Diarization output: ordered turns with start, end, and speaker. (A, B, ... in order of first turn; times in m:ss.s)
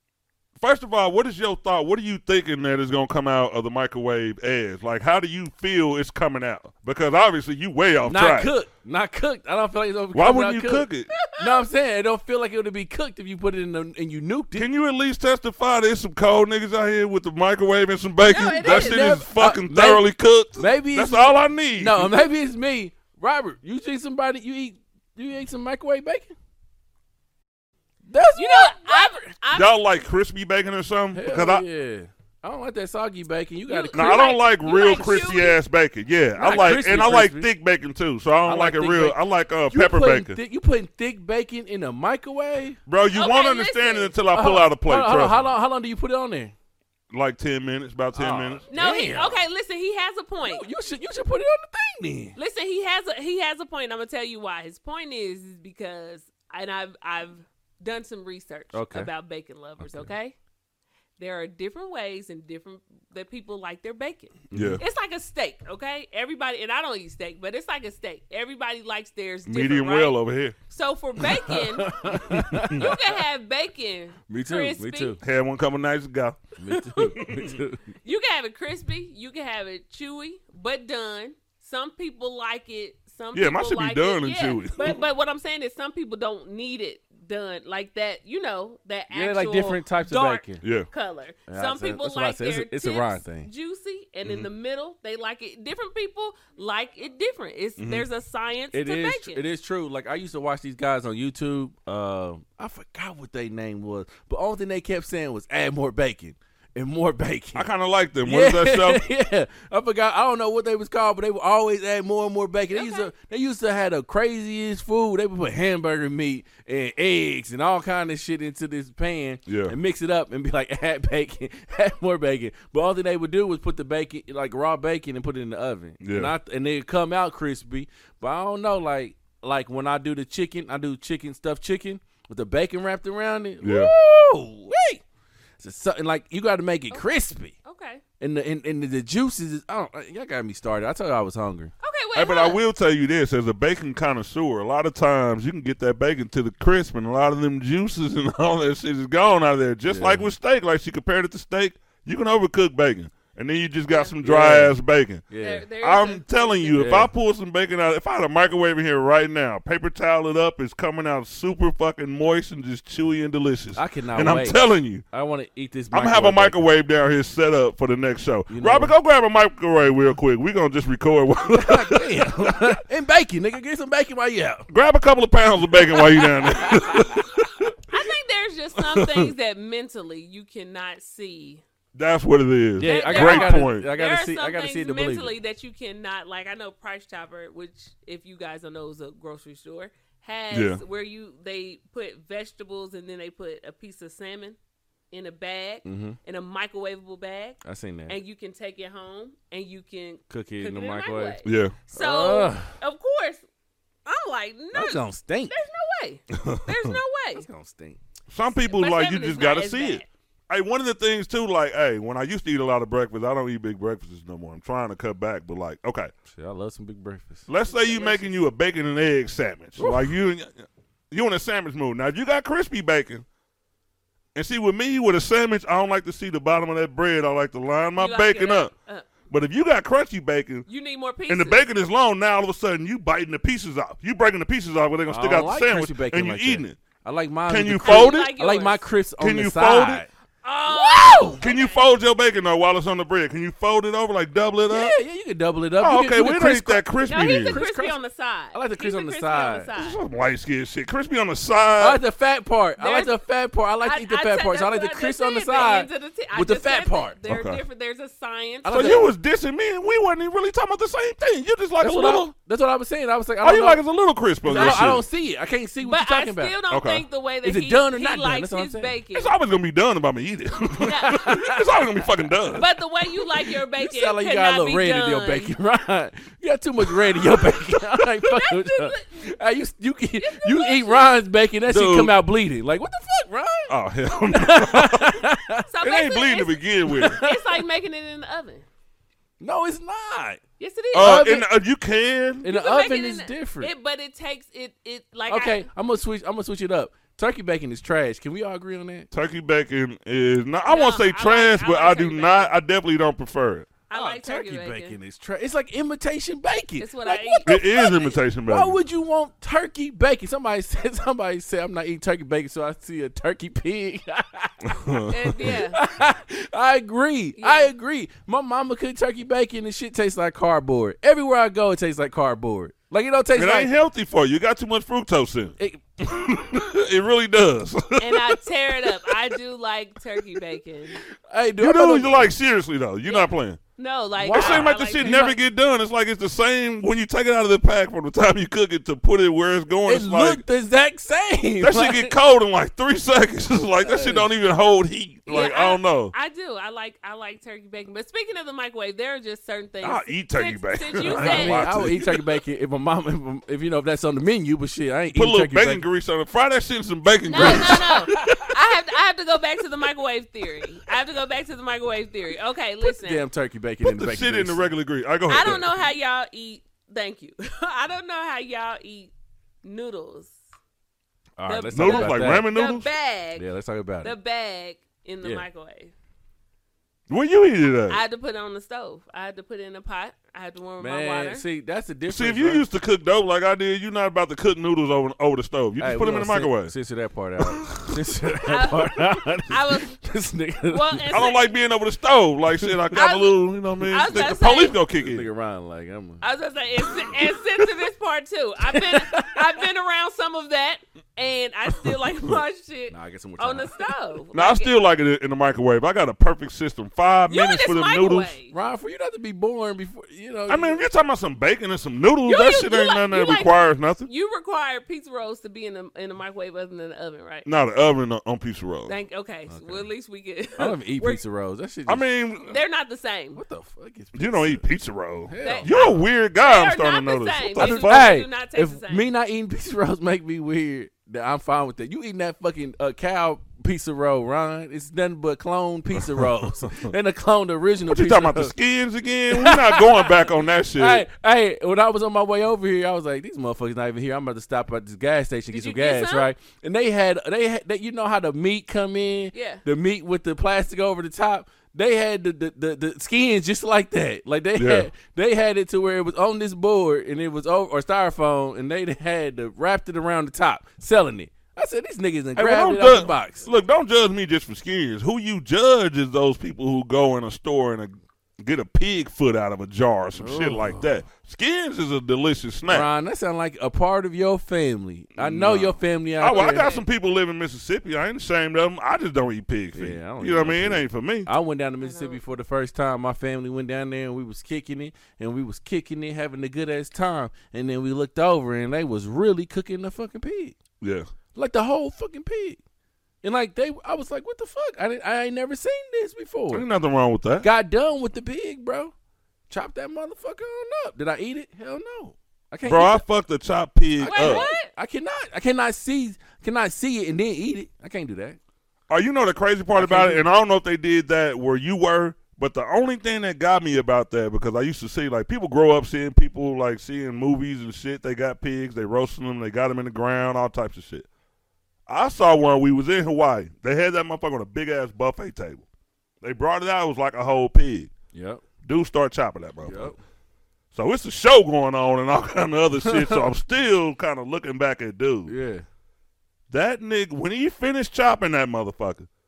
0:00.6-0:08.5 A
0:08.0-0:14.7 B
0:10.1-0:11.1 A
0:11.1-0:11.5 C
0:14.5-0:22.3 A
0:18.2-0:19.2 C
0:18.6-0:26.3 B
0:28.1-0:29.3 B
0:28.4-0:29.9 C
0:29.5-0:31.6 A
0:31.1-0:34.4 B
0:33.7-0:35.6 C
0:33.9-0:40.4 A
0:36.4-0:37.5 B
0:36.4-0:37.2 C
0:38.4-0:42.8 B
0:42.9-0:45.5 A
0:43.1-0:44.2 C
0:44.3-0:46.5 B
0:47.1-0:48.6 A
0:48.1-0:49.4 B
0:48.7-0:50.7 C
0:50.4-0:52.4 B
0:52.4-1:00.3 C
0:58.7-0:59.1 B
0:59.8-1:00.1 B
1:01.2-1:15.2 C
1:04.5-1:04.8 B
1:04.5-1:04.8 A
1:09.5-1:10.6 A
1:11.3-1:13.0 B
1:14.3-1:15.2 B
1:15.2-1:16.4 A
1:16.6-1:17.8 B
1:16.9-1:17.4 C
1:17.0-1:17.5 A
1:18.0-1:39.4 C
1:23.3-1:25.0 A
1:29.1-1:30.6 B
1:30.6-1:30.9 A
1:31.5-1:33.5 B
1:37.8-1:38.0 A
1:38.7-1:47.7 B
1:47.5-1:49.1 A
1:48.2-2:15.0 B
1:52.7-1:53.1 C
1:59.4-1:59.7 A
2:06.0-2:06.3 A
2:13.6-2:13.9 A
2:15.6-2:17.5 B
2:17.6-2:18.0 C
2:18.2-2:21.7 B
2:21.8-2:22.6 C
2:22.1-2:35.3 A
2:29.9-2:30.3 B
2:33.9-2:34.1 C
2:34.2-2:34.8 B
2:35.3-2:35.6 B
2:35.4-2:37.0 C
2:35.8-2:45.0 A
2:36.8-2:37.1 B
2:43.7-2:46.6 B
2:45.9-2:52.8 A
2:48.5-2:48.9 B
2:51.5-2:54.7 B
2:54.7-2:57.7 A
2:56.0-2:57.2 B
2:57.9-3:01.6 C
2:58.8-2:59.3 A
3:01.9-3:03.9 A
3:02.8-3:05.3 B
3:02.8-3:14.6 C
3:10.5-3:10.8 A
3:15.1-3:23.4 C
3:15.8-3:16.2 B
3:17.6-3:18.2 B
3:20.3-3:21.4 B
3:21.4-3:21.8 A
3:21.9-3:22.8 B
3:24.0-3:27.4 C
3:24.7-3:25.6 B
3:26.3-3:26.9 A
3:27.3-3:28.0 B
3:28.3-3:36.1 A
3:28.6-3:30.0 C
3:36.3-3:37.5 B
3:37.5-3:43.2 A
3:37.7-3:38.3 C
3:39.8-3:40.1 B
3:44.3-3:48.7 A
3:48.0-3:49.1 C
3:49.3-3:50.6 A
3:50.7-3:51.6 C
3:51.3-3:56.8 A
3:55.1-4:00.1 B
3:57.5-3:58.3 A
3:57.8-3:58.9 C
3:59.2-4:00.0 A
4:00.4-4:01.9 C
4:00.7-4:01.4 B
4:01.4-4:05.0 A
4:04.7-4:08.0 B
4:05.8-4:07.6 A
4:07.1-4:10.0 C
4:08.5-4:09.7 B
4:09.8-4:12.0 A
4:11.8-4:17.2 B
4:12.8-4:13.2 C
4:13.8-4:19.1 C
4:17.3-4:17.6 A
4:18.6-4:19.1 B
4:18.7-4:22.3 A
4:21.8-4:23.8 B
4:23.4-4:25.0 A
4:24.4-4:26.5 B
4:24.5-4:24.9 C
4:25.8-4:29.3 C
4:26.7-4:27.0 A
4:27.4-4:28.9 B
4:29.1-4:32.6 A
4:30.8-4:32.6 B
4:30.8-4:31.4 C
4:32.5-4:35.5 C
4:33.5-4:45.7 B
4:38.2-4:39.3 C
4:40.2-4:41.1 C
4:41.7-4:42.1 A
4:43.7-4:45.2 A
4:45.7-4:48.6 C
4:45.8-4:47.2 A
4:46.9-4:47.6 B
4:49.4-4:50.4 B
4:50.6-4:51.4 C
4:50.9-4:51.5 B
4:50.9-4:52.4 A
4:52.4-4:53.7 B
4:52.4-4:55.6 C
4:55.3-4:59.1 B
4:59.1-5:03.7 A
5:00.6-5:02.6 C
5:03.9-5:05.0 C
5:03.9-5:07.6 B
5:06.8-5:08.2 C
5:07.4-5:08.8 A
5:08.5-5:23.7 B
5:14.7-5:15.3 A
5:15.1-5:15.8 C
5:17.4-5:17.7 C
5:23.4-5:29.3 A
5:28.0-5:31.0 C
5:31.3-5:32.3 B
5:31.6-5:33.6 A
5:33.0-5:35.3 C
5:34.2-5:35.4 B
5:34.3-5:40.4 A
5:39.9-5:42.1 B
5:41.6-5:46.1 A
5:43.8-5:44.3 B
5:45.3-5:51.6 C
5:49.8-5:52.3 A
5:51.0-5:55.8 B
5:55.1-5:58.5 A
5:57.3-6:03.2 C
5:57.4-5:58.2 B
6:02.8-6:04.7 B
6:03.8-6:05.7 A
6:05.3-6:09.1 C
6:05.4-6:05.6 B
6:09.6-6:10.3 C
6:11.4-6:12.5 B
6:11.4-6:13.5 C
6:11.7-6:12.9 A
6:13.3-6:14.1 B
6:14.0-6:15.9 C
6:17.1-6:18.0 A
6:17.9-6:21.4 C
6:20.8-6:22.6 B
6:22.1-6:26.7 A
6:25.8-6:31.2 B
6:27.4-6:27.9 A
6:28.4-6:30.0 C
6:30.7-6:31.5 C
6:31.1-6:35.3 A
6:32.6-6:32.9 B
6:32.9-6:34.8 C
6:34.9-6:36.2 B
6:36.2-6:44.7 C
6:38.7-6:39.6 B
6:42.9-6:43.8 B
6:44.3-6:48.3 A
6:47.3-6:48.5 C
6:48.5-6:50.8 B
6:50.5-6:54.1 A
6:52.2-6:57.5 C
6:57.4-6:58.9 A
6:58.9-7:01.2 C
6:59.5-6:59.9 B
7:00.6-7:02.0 B
7:01.9-7:02.6 A
7:02.5-7:03.4 C
7:03.3-7:04.6 B
7:04.1-7:08.1 A
7:05.3-7:05.7 B
7:05.4-7:09.1 C
7:07.6-7:18.5 B
7:16.2-7:16.9 A
7:17.9-7:21.0 A
7:19.3-7:20.2 B
7:20.7-7:43.4 B
7:25.5-7:26.3 C
7:29.3-7:29.6 C
7:34.6-7:34.9 A
7:42.4-7:52.9 A
7:50.1-7:50.8 B
7:52.7-7:56.7 B
7:55.2-8:01.3 A
7:56.2-7:56.8 C
7:59.7-8:10.6 B
8:01.8-8:02.2 C
8:10.8-8:11.1 A
8:11.3-8:12.6 B
8:13.2-8:16.6 B
8:16.5-8:17.4 A
8:17.4-8:18.9 B
8:19.5-8:23.0 B
8:22.6-8:24.4 A
8:24.0-8:24.7 C
8:24.0-8:28.4 B
8:28.9-8:41.0 A
8:29.7-8:30.2 B
8:41.9-8:45.6 A
8:46.2-8:47.9 A
8:48.1-8:48.4 B
8:48.6-8:49.9 A
8:49.6-8:50.0 B
8:50.7-8:55.3 A
8:52.8-8:53.2 B
8:55.3-8:55.6 B
8:56.5-8:59.1 A